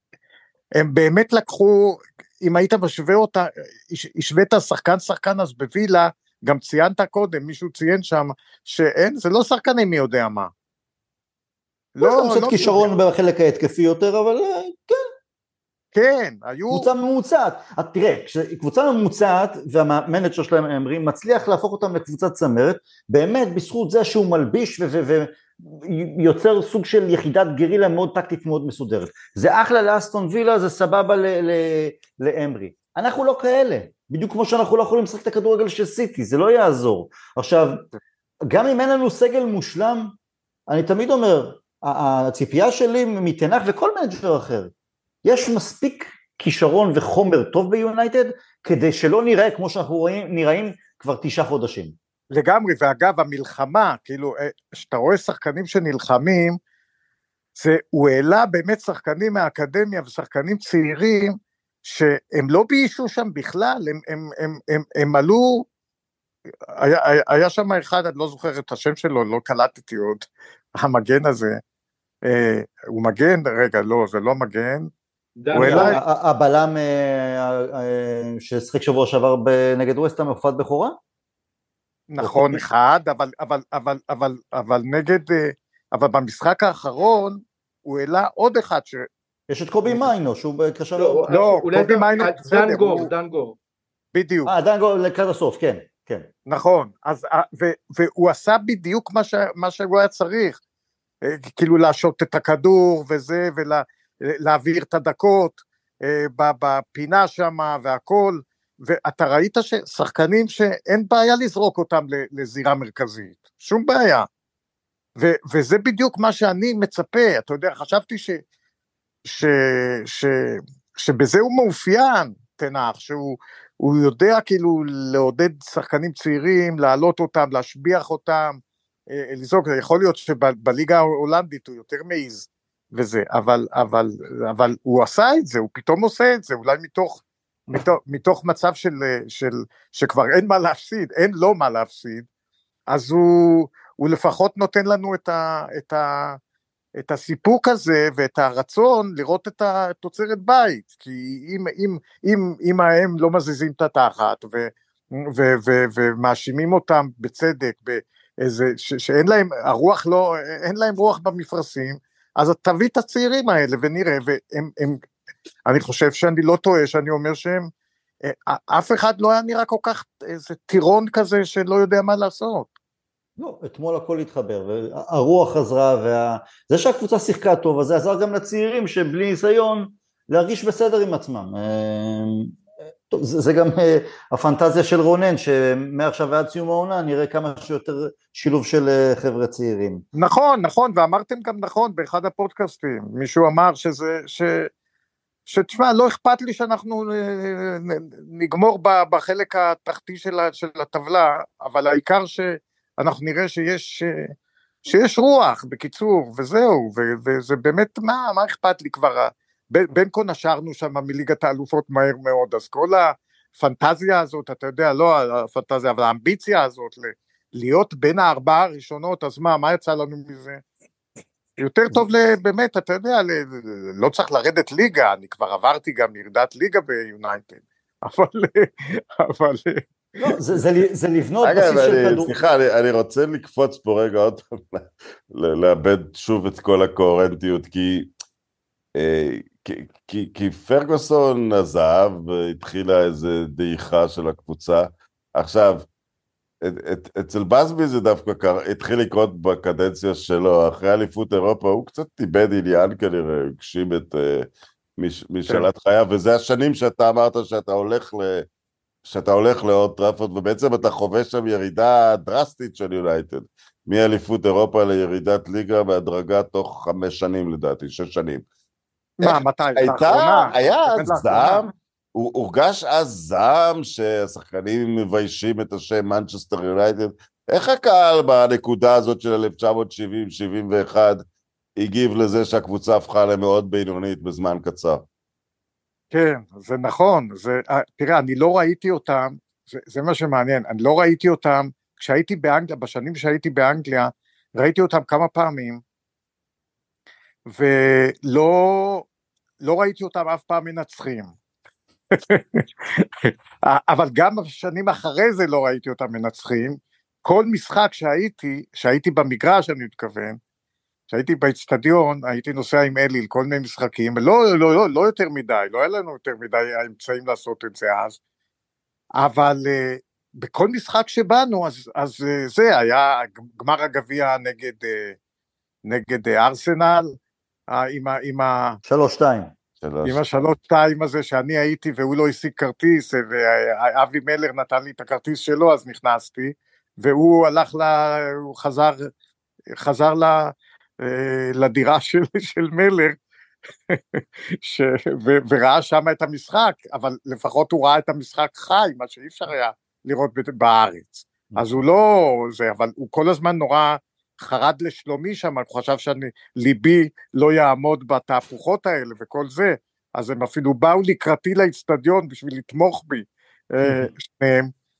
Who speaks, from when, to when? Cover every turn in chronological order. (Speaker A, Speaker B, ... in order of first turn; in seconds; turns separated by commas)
Speaker A: 0.8-10.5, Speaker A: 11.9-12.9, Speaker B: 12.0-15.1, Speaker A: 15.9-16.9, Speaker B: 16.7-37.9, Speaker B: 38.5-40.1, Speaker B: 40.7-44.7, Speaker B: 45.2-51.9, Speaker A: 52.3-56.6, Speaker A: 57.5-65.7, Speaker A: 66.7-71.6, Speaker A: 72.2-74.9, Speaker C: 75.4-76.0, Speaker A: 75.5-76.0, Speaker B: 75.5-81.0, Speaker A: 82.1-89.1, Speaker B: 82.2-82.6, Speaker B: 89.5-91.3, Speaker C: 91.0-93.5, Speaker A: 91.3-93.1, Speaker A: 94.1-94.5, Speaker B: 94.5-96.3, Speaker A: 96.5-100.6, Speaker A: 101.2-114.3, Speaker A: 115.2-118.4, Speaker A: 119.2-128.6, Speaker A: 129.1-142.2, Speaker A: 142.9-146.4, Speaker A: 147.0-165.0, Speaker A: 165.7-167.7, Speaker A: 168.2-172.7, Speaker B: 173.4-182.6, Speaker B: 183.1-190.0, Speaker A: 190.1-194.7, Speaker A: 195.5-204.3, Speaker A: 204.8-220.6, Speaker A: 221.6-230.3, Speaker B: 230.2-232.3, Speaker D: 231.4-238.1, Speaker D: 238.9-245.8, Speaker D: 246.6-258.4, Speaker D: 259.0-268.4, Speaker A: 269.2-271.7, Speaker D: 269.2-281.2, Speaker D: 281.8-285.0, Speaker A: 286.1-295.8, Speaker A: 297.4-299.1, Speaker A: 299.6-301.3, Speaker A: 302.1-310.4, Speaker A: 311.1-318.2, Speaker A: 319.1-325.1, Speaker A: 325.8-327.1, Speaker A: 327.7-328.8, Speaker B: 328.8-329.5, Speaker D: 329.8-330.4, Speaker A: 330.0-339.1, Speaker A: 339.8-343.1, Speaker A: 343.9-364.7, Speaker B: 351.5-351.8, Speaker B: 363.8-364.1